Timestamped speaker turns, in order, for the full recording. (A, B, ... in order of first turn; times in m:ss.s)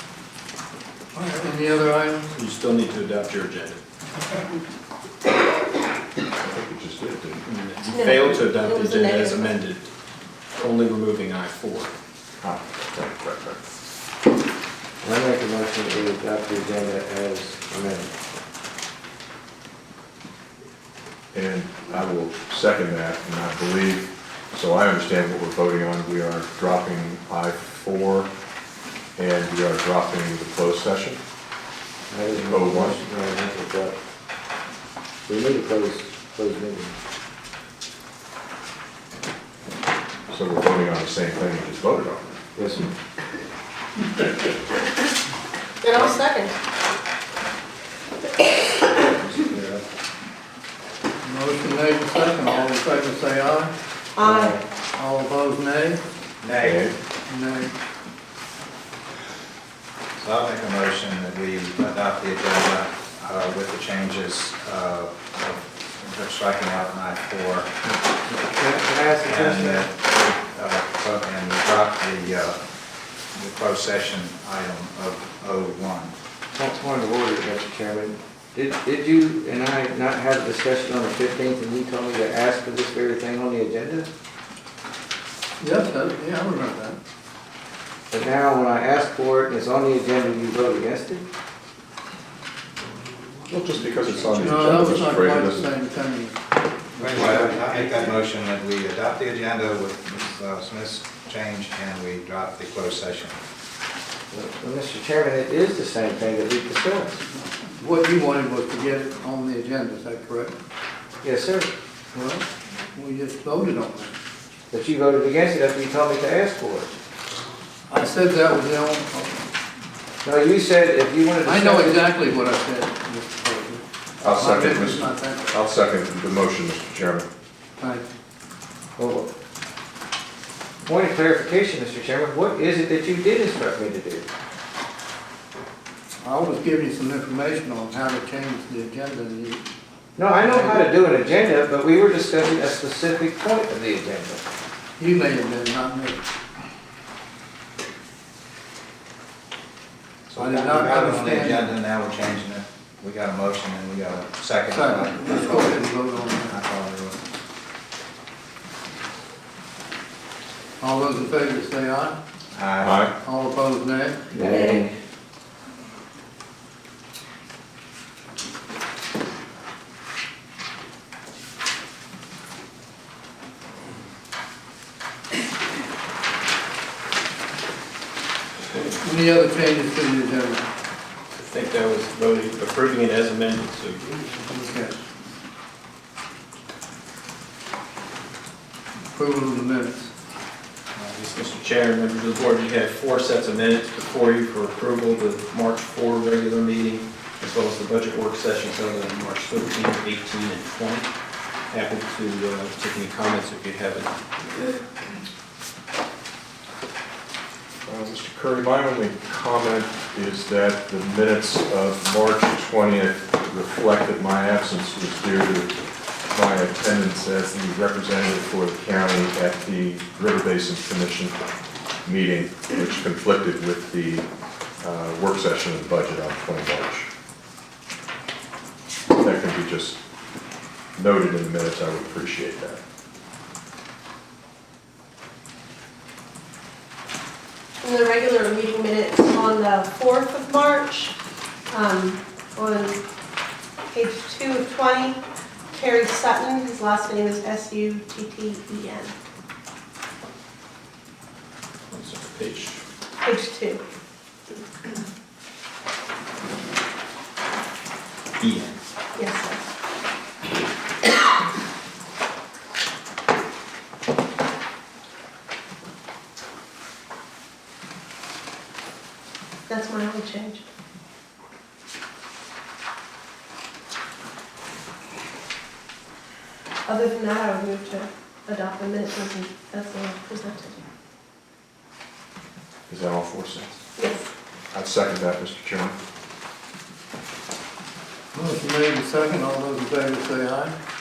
0:01.1-0:02.3 A
0:02.3-0:03.8 B
0:06.4-0:07.4 C
0:07.4-0:09.9 B
0:07.9-0:09.5 D
0:10.6-0:11.9 B
0:12.4-0:13.6 C
0:15.0-0:18.1 E
0:21.3-0:28.3 C
0:29.2-0:31.2 C
0:32.1-0:34.0 E
0:32.3-0:33.0 C
0:35.3-0:36.9 E
0:40.3-0:42.5 C
0:42.6-0:42.9 E
0:45.8-0:46.5 D
0:48.9-0:49.8 F
0:51.2-0:53.7 A
0:54.2-0:54.6 D
0:55.0-0:56.0 A
0:56.4-0:56.8 F
0:56.6-0:57.0 C
0:57.3-0:57.7 A
1:00.2-1:07.7 F
1:07.9-1:09.9 E
1:09.2-1:12.6 F
1:13.3-1:16.1 F
1:16.5-1:24.1 E
1:25.6-1:27.0 A
1:28.1-1:31.2 E
1:33.4-1:35.7 C
1:34.4-1:36.4 A
1:37.0-1:43.4 F
1:37.2-1:38.0 E
1:44.3-1:47.2 E
1:47.8-1:50.5 A
1:51.2-1:51.7 E
1:52.1-1:54.2 A
1:54.7-1:56.9 E
1:57.9-1:59.4 A
2:00.2-2:02.0 E
2:01.4-2:05.5 A
2:04.2-2:07.3 C
2:07.8-2:08.0 A
2:09.0-2:09.3 E
2:10.8-2:14.2 E
2:16.2-2:19.6 A
2:20.2-2:24.4 E
2:20.4-2:20.8 A
2:25.0-2:26.2 A
2:30.3-2:35.9 F
2:30.4-2:31.7 A
2:34.7-2:36.6 A
2:36.4-2:37.2 F
2:40.8-2:42.2 A
2:42.5-2:43.0 F
2:42.8-2:43.1 C
2:43.2-2:44.2 A
2:44.3-2:44.9 E
2:58.9-3:00.7 A
3:01.3-3:04.3 B
3:04.4-3:05.0 A
3:09.0-3:10.1 A
3:10.9-3:21.1 B
3:21.7-3:24.1 B
3:27.8-3:35.7 C
3:36.3-3:41.4 C
3:42.0-3:44.3 C
3:44.8-3:47.1 C
3:49.2-3:50.0 C
3:51.0-3:52.8 C
3:57.8-4:01.1 D
4:01.7-4:03.0 D
4:03.9-4:05.2 D
4:05.7-4:09.1 D
4:11.9-4:12.8 B
4:13.2-4:13.8 D
4:18.4-4:18.7 B
4:19.1-4:19.6 D
4:29.7-4:30.6 D
4:36.8-4:40.8 D
4:42.9-4:43.8 C
4:44.0-4:44.3 D
4:44.7-4:46.0 C
4:48.3-4:50.8 A